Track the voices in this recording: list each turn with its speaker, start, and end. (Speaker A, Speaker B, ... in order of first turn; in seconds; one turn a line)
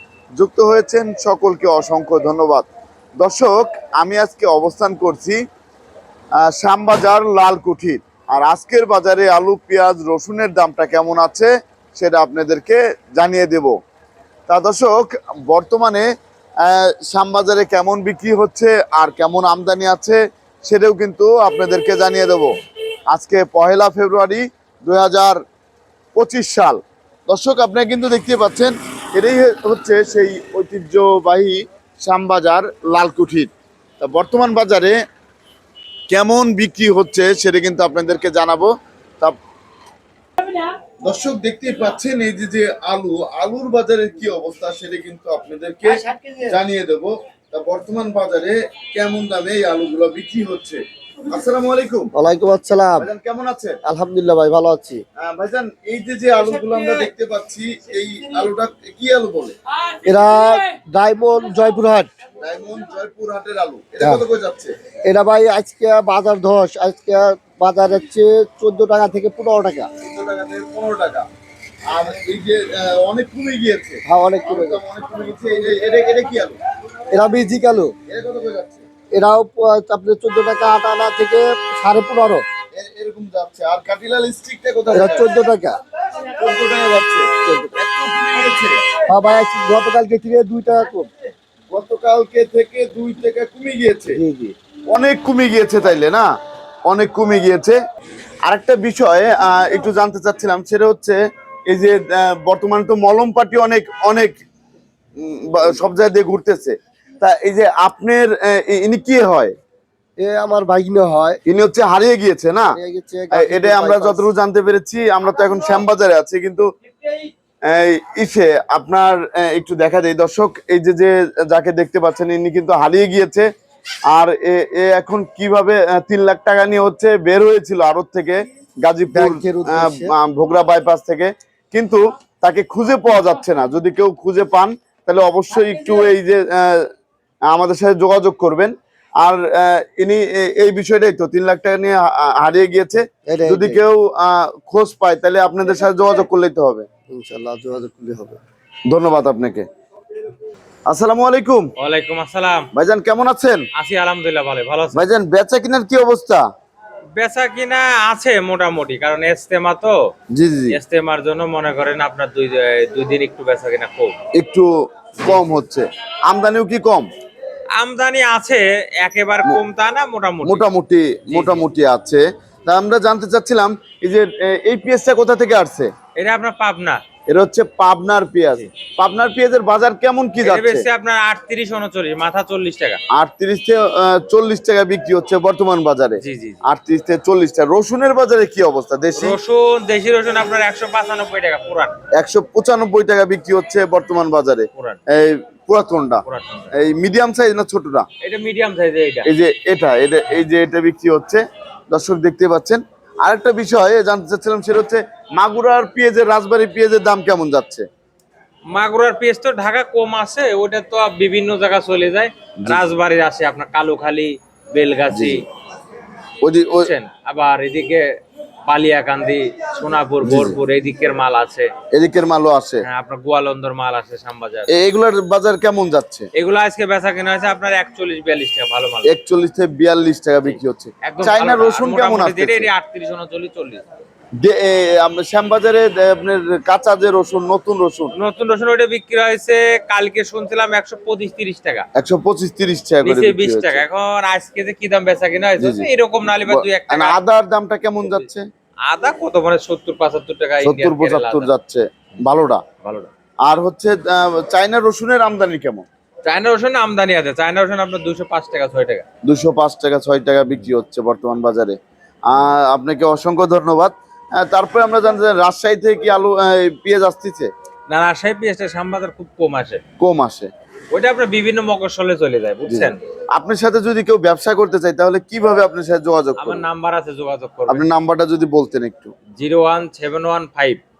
Speaker A: 0.4-2.7
Speaker A: 3.2-5.4
Speaker A: 6.4-13.8
Speaker A: 14.5-16.1
Speaker A: 16.6-22.5
Speaker A: 23.1-25.4
Speaker A: 26.1-35.0
Speaker A: 36.1-39.4
Speaker A: 41.0-50.8
Speaker A: 51.3-52.1
Speaker B: 52.1-53.1
Speaker A: 53.0-53.8
Speaker B: 53.8-55.0
Speaker A: 55.2-59.5
Speaker B: 60.0-62.1
Speaker A: 62.4-64.7
Speaker B: 65.0-69.9
Speaker A: 70.0-71.3
Speaker A: 71.9-76.5
Speaker B: 74.0-74.8
Speaker B: 77.1-77.9
Speaker A: 78.1-78.8
Speaker B: 79.1-82.4
Speaker A: 82.7-85.3
Speaker B: 84.9-85.8
Speaker A: 86.3-88.8
Speaker B: 87.3-87.7
Speaker B: 89.1-91.1
Speaker A: 91.7-94.2
Speaker B: 94.1-94.5
Speaker A: 94.9-96.3
Speaker A: 96.9-97.8
Speaker A: 98.5-101.2
Speaker A: 101.7-104.4
Speaker A: 105.2-109.5
Speaker B: 110.2-111.4
Speaker A: 111.5-112.8
Speaker B: 112.7-114.3
Speaker A: 113.3-116.7
Speaker A: 117.7-123.5
Speaker A: 124.1-136.9
Speaker B: 129.1-130.1
Speaker A: 137.5-146.9
Speaker B: 143.3-143.8
Speaker B: 147.1-148.4
Speaker A: 148.9-149.7
Speaker A: 150.9-151.7
Speaker C: 151.8-152.7
Speaker A: 152.7-153.7
Speaker C: 153.7-155.1
Speaker A: 154.9-156.4
Speaker C: 157.2-159.9
Speaker A: 160.3-160.8
Speaker C: 160.7-164.2
Speaker A: 164.3-167.1
Speaker C: 165.2-165.5
Speaker C: 167.8-170.7
Speaker A: 170.4-175.9
Speaker C: 171.3-171.7
Speaker C: 176.2-177.0
Speaker A: 177.3-180.8
Speaker C: 180.4-183.0
Speaker A: 183.1-189.4
Speaker C: 186.2-186.6
Speaker C: 189.2-191.9
Speaker A: 192.2-198.1
Speaker C: 194.7-195.0
Speaker C: 196.2-196.8
Speaker C: 198.2-199.3
Speaker A: 199.2-207.8
Speaker C: 208.7-215.4
Speaker A: 212.6-212.8
Speaker A: 215.1-215.4
Speaker A: 216.4-216.9
Speaker C: 216.7-218.1
Speaker C: 218.7-221.7
Speaker A: 220.2-220.6
Speaker A: 221.9-222.8
Speaker C: 222.8-224.7
Speaker A: 224.7-226.3
Speaker C: 226.3-229.1
Speaker A: 229.0-232.7
Speaker C: 230.4-233.8
Speaker A: 234.4-238.1
Speaker C: 238.1-241.9
Speaker A: 241.9-243.8
Speaker C: 243.0-247.2
Speaker A: 245.6-245.9
Speaker A: 246.4-248.5
Speaker C: 248.0-248.3
Speaker C: 248.8-251.5
Speaker A: 250.6-252.6
Speaker C: 252.8-253.1
Speaker A: 253.4-255.9
Speaker C: 256.2-259.0
Speaker A: 259.2-267.5
Speaker C: 267.9-269.8
Speaker A: 270.0-270.5
Speaker C: 270.9-273.0
Speaker A: 272.7-276.6
Speaker C: 276.4-277.9
Speaker A: 277.7-279.1
Speaker C: 279.4-280.8